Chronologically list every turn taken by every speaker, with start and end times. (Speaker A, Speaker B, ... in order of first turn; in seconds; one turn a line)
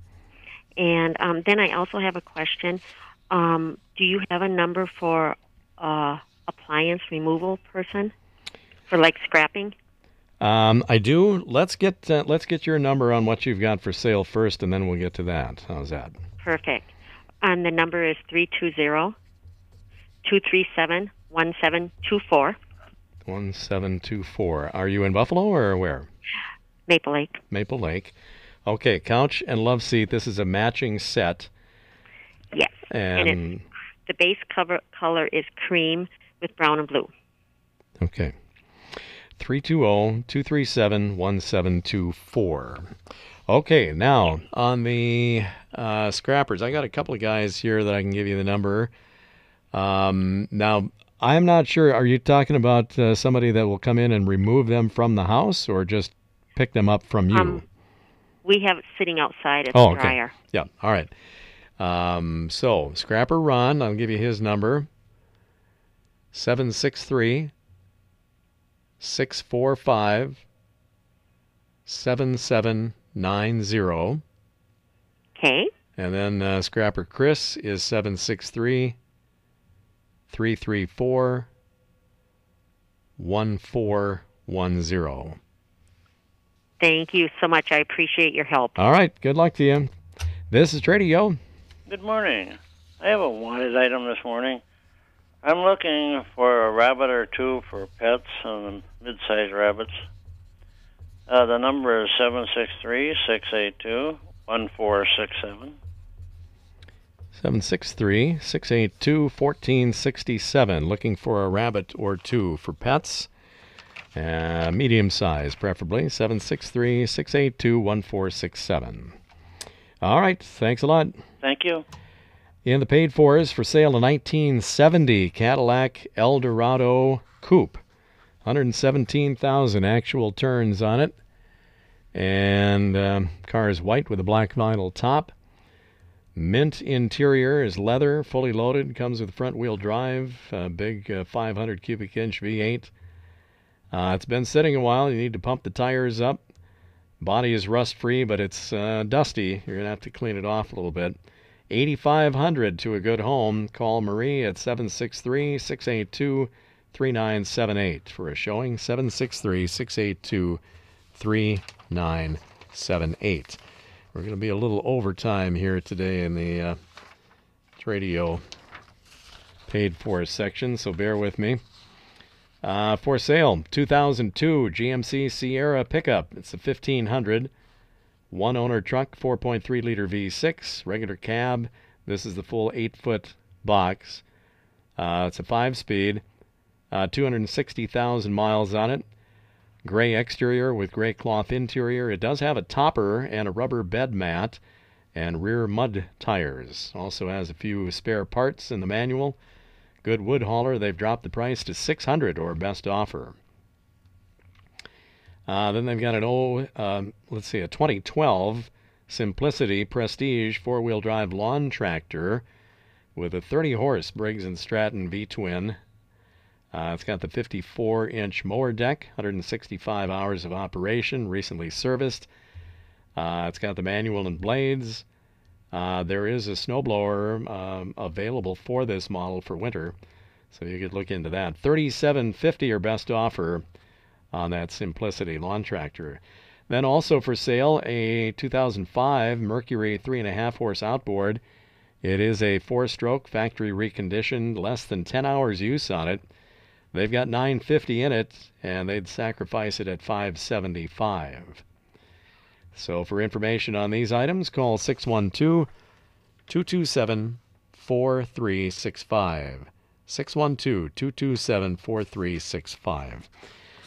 Speaker A: 0.8-8.1
Speaker A: 8.9-9.7
Speaker B: 10.4-16.2
Speaker A: 16.4-19.1
Speaker A: 20.2-22.6
Speaker B: 23.2-26.1
Speaker A: 26.9-27.4
Speaker B: 27.5-28.1
Speaker B: 28.6-31.5
Speaker A: 32.5-33.4
Speaker B: 32.9-33.6
Speaker A: 34.0-37.1
Speaker B: 38.0-38.3
Speaker B: 39.4-42.9
Speaker B: 43.5-48.9
Speaker B: 49.7-57.6
Speaker A: 57.3-57.6
Speaker A: 58.4-60.3
Speaker B: 59.7-61.1
Speaker B: 61.8-64.9
Speaker B: 66.3-67.5
Speaker B: 69.0-70.4
Speaker B: 71.8-74.2
Speaker A: 75.3-75.7
Speaker B: 76.0-79.0
Speaker B: 80.3-81.5
Speaker B: 83.2-85.4
Speaker A: 86.8-88.8
Speaker B: 88.8-89.9
Speaker B: 90.5-91.4
Speaker C: 91.9-94.6
Speaker C: 95.4-100.0
Speaker C: 101.3-105.8
Speaker B: 107.3-113.3
Speaker B: 114.1-119.2
Speaker B: 120.0-121.2
Speaker C: 121.4-121.8
Speaker B: 122.6-127.8
Speaker B: 128.4-131.2
Speaker B: 132.1-135.3
Speaker B: 136.3-142.9
Speaker B: 143.9-146.4
Speaker B: 147.2-151.2
Speaker B: 151.7-160.6
Speaker B: 161.1-163.6
Speaker B: 164.1-166.8
Speaker B: 167.8-168.4
Speaker B: 169.7-171.6
Speaker B: 172.6-177.5
Speaker B: 178.3-184.2
Speaker B: 185.0-186.2
Speaker B: 186.9-189.1
Speaker B: 189.8-194.6
Speaker B: 195.1-199.4
Speaker B: 200.0-203.4
Speaker B: 205.5-212.4
Speaker B: 213.1-215.8
Speaker B: 216.7-222.3
Speaker B: 223.2-225.0
Speaker B: 225.7-229.9
Speaker B: 230.5-233.6
Speaker B: 234.3-241.4
Speaker B: 242.0-246.2
Speaker B: 246.9-251.6
Speaker B: 252.7-255.7
Speaker B: 256.5-263.3